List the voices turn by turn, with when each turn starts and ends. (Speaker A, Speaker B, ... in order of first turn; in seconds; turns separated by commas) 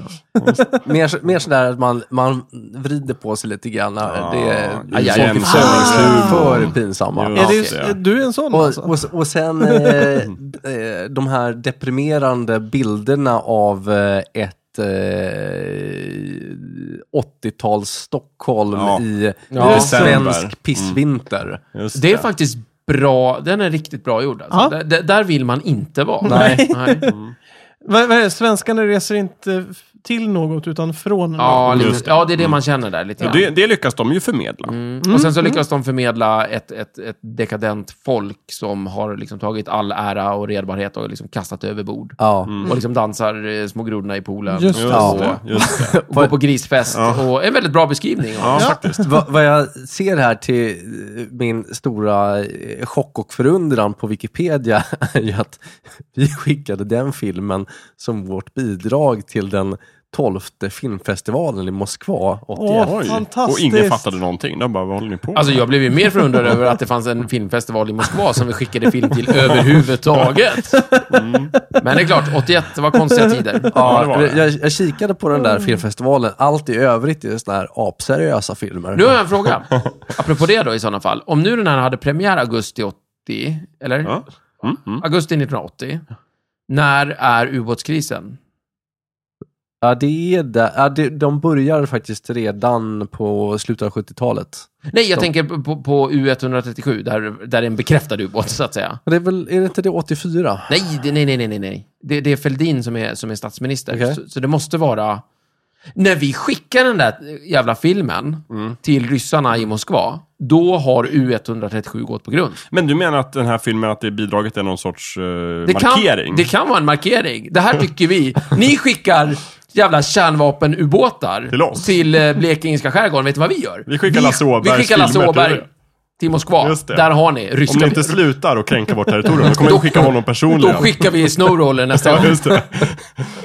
Speaker A: 0.4-0.8, Speaker B: 0.4-0.8, Speaker C: 0.8-7.4, Speaker A: 4.1-8.0, Speaker D: 4.9-6.3, Speaker B: 5.5-6.6, Speaker D: 7.3-7.8, Speaker B: 7.3-8.9, Speaker C: 8.5-21.6, Speaker B: 9.6-10.2, Speaker A: 18.7-19.0, Speaker D: 19.5-20.0, Speaker A: 19.6-21.0, Speaker B: 19.6-20.2, Speaker A: 21.7-22.2, Speaker D: 21.9-27.1, Speaker B: 26.2-27.1, Speaker C: 26.3-26.7, Speaker A: 27.1-27.3, Speaker B: 27.8-32.0, Speaker D: 31.4-33.5, Speaker A: 31.6-32.6, Speaker A: 33.2-34.7, Speaker D: 34.6-48.8, Speaker B: 35.0-35.6, Speaker C: 42.2-42.6, Speaker A: 42.5-42.7, Speaker B: 44.5-45.3, Speaker A: 44.8-45.9, Speaker C: 44.9-46.3, Speaker A: 46.9-47.2, Speaker A: 48.4-49.0, Speaker C: 48.9-63.0, Speaker B: 62.5-64.0, Speaker A: 62.8-65.7, Speaker D: 65.3-70.8, Speaker B: 70.7-71.2, Speaker A: 71.1-71.5, Speaker D: 71.8-74.1, Speaker C: 73.7-79.2, Speaker A: 73.7-74.5, Speaker D: 78.9-84.2, Speaker A: 84.0-85.0, Speaker D: 84.7-86.0, Speaker D: 86.7-88.4, Speaker C: 89.8-94.7, Speaker D: 94.9-99.0, Speaker C: 99.1-100.7, Speaker D: 100.7-105.2, Speaker C: 103.9-104.2, Speaker D: 106.0-112.6, Speaker A: 112.7-116.5, Speaker D: 115.7-125.7, Speaker A: 121.5-121.9, Speaker A: 123.9-125.7, Speaker D: 126.2-128.2, Speaker A: 126.6-127.1, Speaker A: 127.7-131.3, Speaker D: 129.4-132.4, Speaker A: 132.0-133.3